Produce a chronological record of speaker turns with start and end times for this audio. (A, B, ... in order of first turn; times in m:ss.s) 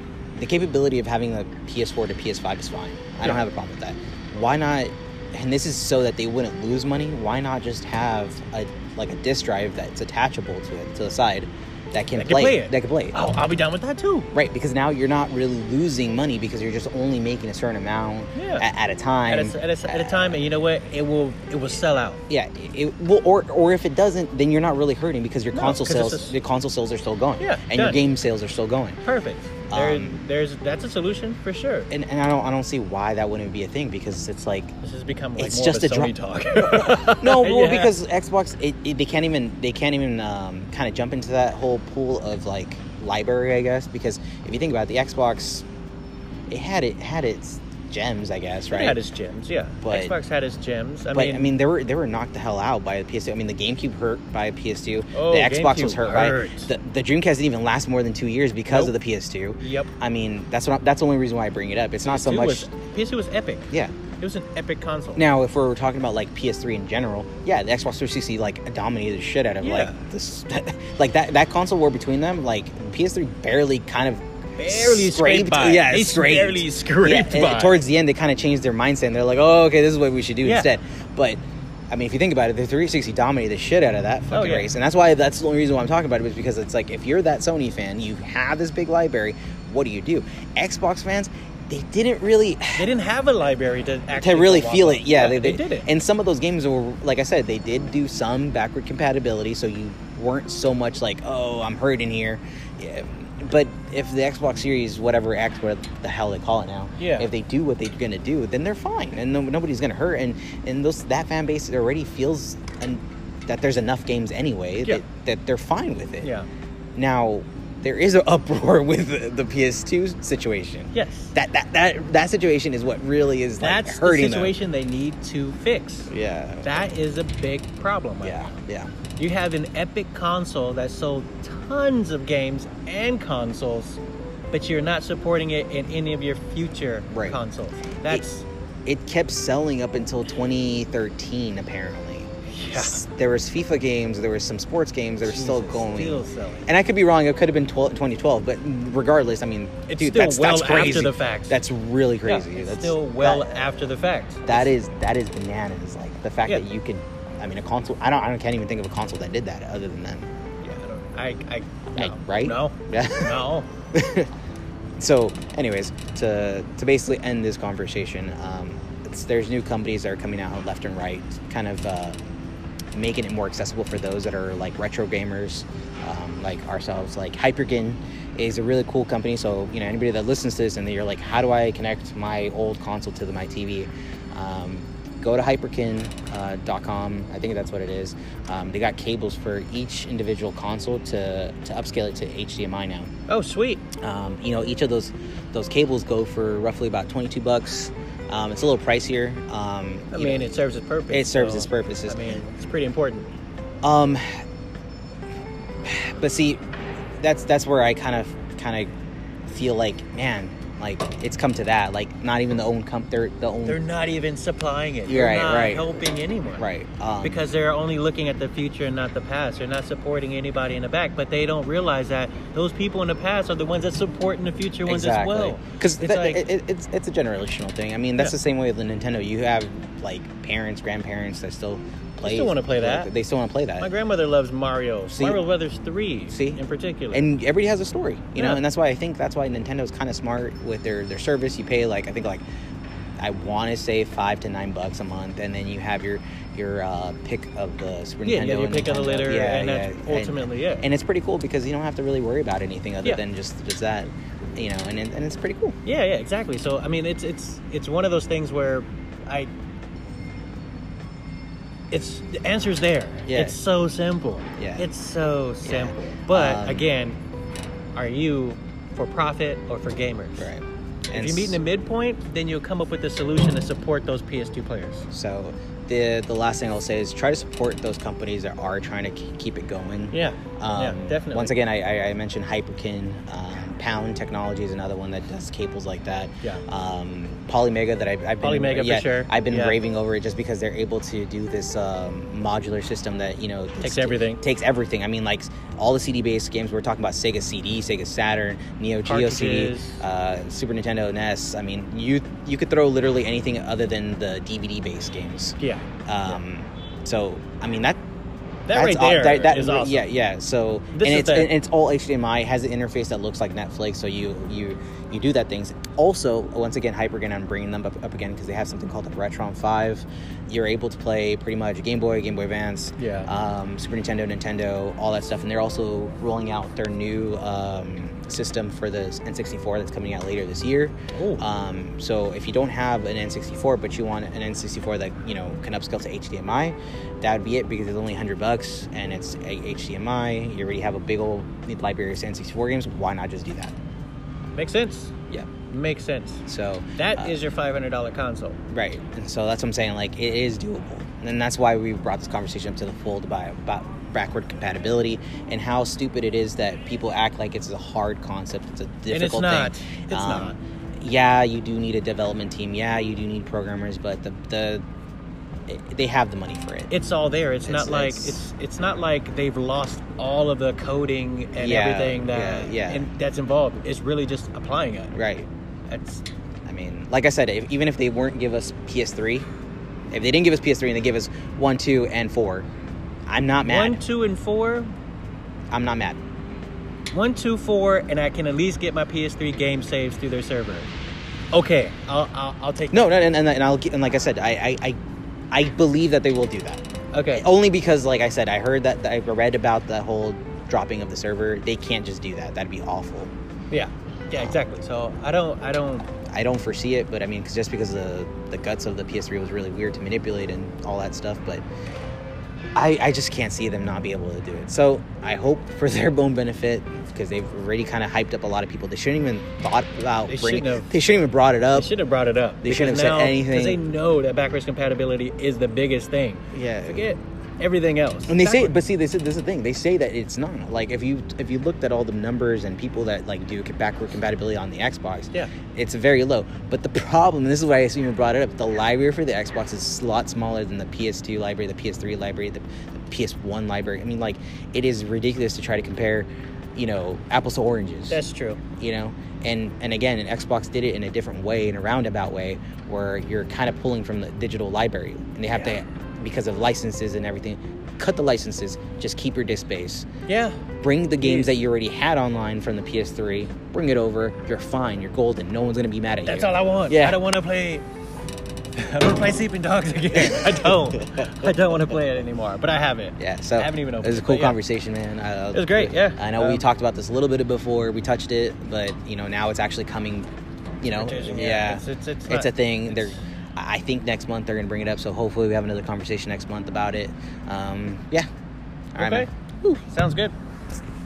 0:00.4-0:13.2 A
0:12.2-0:14.3 B
0:14.3-0:20.4 A
0:18.4-0:18.7 B
0:19.3-0:22.2 B
0:22.3-0:29.0 A
0:25.5-0:26.4 B
0:27.4-0:28.0 B
0:29.0-0:31.9 B
0:29.7-0:30.2 A
0:31.9-0:34.8 A
0:34.8-0:38.0 B
0:35.4-0:45.6 A
0:46.5-0:49.0 A
0:48.7-0:51.5 B
0:49.8-0:50.2 A
0:51.1-1:02.7 A
0:55.1-0:56.7 B
0:58.7-0:58.9 B
0:59.6-0:59.9 B
1:02.0-1:05.3 B
1:05.2-1:32.9 A
1:09.6-1:10.0 B
1:14.6-1:17.8 B
1:20.4-1:20.7 B
1:24.3-1:24.7 B
1:32.8-1:35.9 B
1:34.2-1:56.3 A
1:47.0-1:47.3 B
1:56.2-1:56.5 B
1:57.0-2:04.6 A
2:00.9-2:01.3 B
2:03.6-2:06.1 B
2:06.1-2:06.9 A
2:06.6-2:08.5 B
2:08.2-2:08.9 A
2:09.2-2:14.0 B
2:14.5-2:18.4 B
2:17.1-2:17.4 A
2:18.9-2:33.6 A
2:22.5-2:23.0 B
2:25.2-2:26.7 B
2:29.9-2:31.6 B
2:32.2-2:34.7 B
2:34.5-2:40.3 A
2:40.6-2:43.7 B
2:41.9-2:43.4 A
2:43.9-2:44.3 A
2:45.0-2:52.2 A
2:52.9-3:13.1 A
3:13.3-3:13.9 B
3:14.0-3:20.5 A
3:20.1-3:23.3 B
3:21.1-3:22.4 A
3:23.8-3:24.4 A
3:25.8-3:26.7 A
3:27.2-3:28.9 A
3:29.5-3:33.8 A
3:33.7-3:36.7 B
3:35.1-3:35.9 A
3:36.6-3:37.4 A
3:37.2-3:46.5 B
3:44.9-3:53.9 A
3:52.2-3:53.1 B
3:53.8-3:57.2 B
3:55.1-3:55.4 A
3:56.3-3:56.6 A
3:57.1-4:02.4 A
3:58.4-3:58.6 B
4:03.2-4:15.8 A
4:08.2-4:10.9 B
4:15.8-4:19.5 B
4:21.9-4:27.2 B
4:23.3-4:23.6 A
4:24.6-4:24.9 A
4:25.6-4:26.9 A
4:28.0-4:30.5 B
4:30.4-4:31.6 A
4:31.1-4:35.1 B
4:35.1-5:08.0 A
4:40.1-4:41.6 B
4:48.4-4:49.8 B
4:53.8-4:54.4 B
4:59.0-5:00.0 B
5:08.7-5:10.1 B
5:08.7-5:43.8 A
5:10.9-5:11.5 B
5:23.0-5:23.3 B
5:31.2-5:31.4 B
5:44.6-5:46.5 B
5:46.5-5:47.4 A
5:47.0-5:48.6 B
5:48.7-6:04.8 A
5:59.1-6:00.6 B
6:05.7-6:06.9 A
6:06.9-6:15.1 B
6:07.6-6:08.4 A
6:11.6-6:13.1 A
6:15.1-6:15.5 A
6:15.9-6:16.2 B
6:16.6-6:19.5 A
6:20.1-6:22.7 A
6:23.3-6:24.0 A
6:23.6-6:24.9 B
6:25.7-6:26.2 A
6:27.1-6:30.9 B
6:31.5-6:33.1 B
6:32.9-6:35.0 A
6:35.5-6:43.3 A
6:37.1-6:37.5 B
6:43.7-6:46.1 B
6:44.3-6:44.6 A
6:46.3-6:51.6 A
6:52.8-7:01.9 A
7:00.3-7:01.0 B
7:01.7-7:08.8 B
7:02.6-7:03.8 A
7:06.5-7:07.1 A
7:08.3-7:28.2 A
7:28.1-7:28.6 B
7:28.8-7:40.1 A
7:40.3-7:40.6 B
7:40.8-7:47.2 A
7:41.2-7:41.5 B
7:46.3-7:47.8 B
7:48.8-7:54.6 B
7:53.2-8:00.3 A
7:55.5-7:56.6 B
8:00.8-8:08.3 A
8:00.9-8:03.1 B
8:09.0-8:09.3 A
8:09.0-8:10.3 B